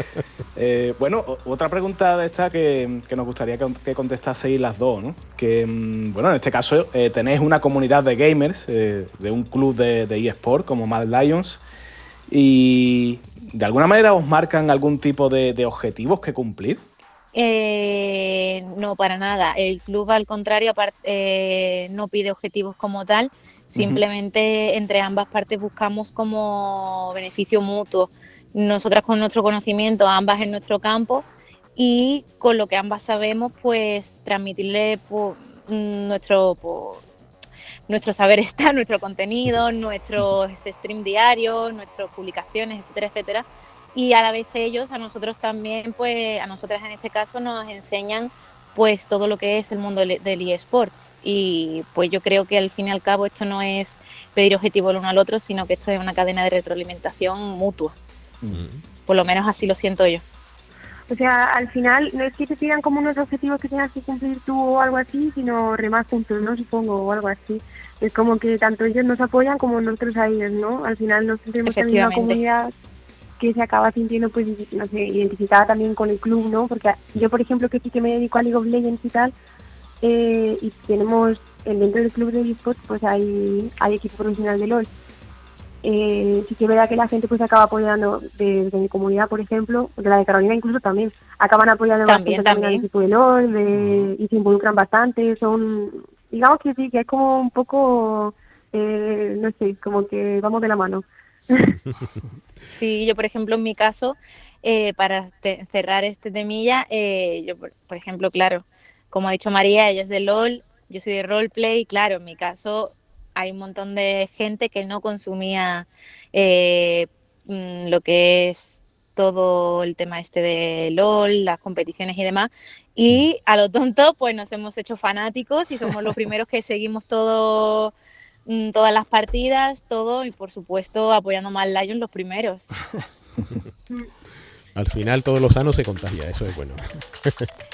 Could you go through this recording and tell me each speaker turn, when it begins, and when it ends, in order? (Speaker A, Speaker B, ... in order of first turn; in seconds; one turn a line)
Speaker A: 0.6-11.6
Speaker A: 12.3-16.8
Speaker B: 17.3-37.0
Speaker A: 23.8-24.0
Speaker B: 37.9-58.0
Speaker C: 58.5-58.8
Speaker B: 59.1-60.2
Speaker D: 61.1-72.7
Speaker B: 71.7-72.4
Speaker D: 73.4-79.3
Speaker D: 80.0-84.9
Speaker D: 85.8-101.8
Speaker B: 92.0-92.8
Speaker C: 93.8-94.1
Speaker B: 102.7-127.9
Speaker B: 128.5-132.7
Speaker C: 134.7-137.5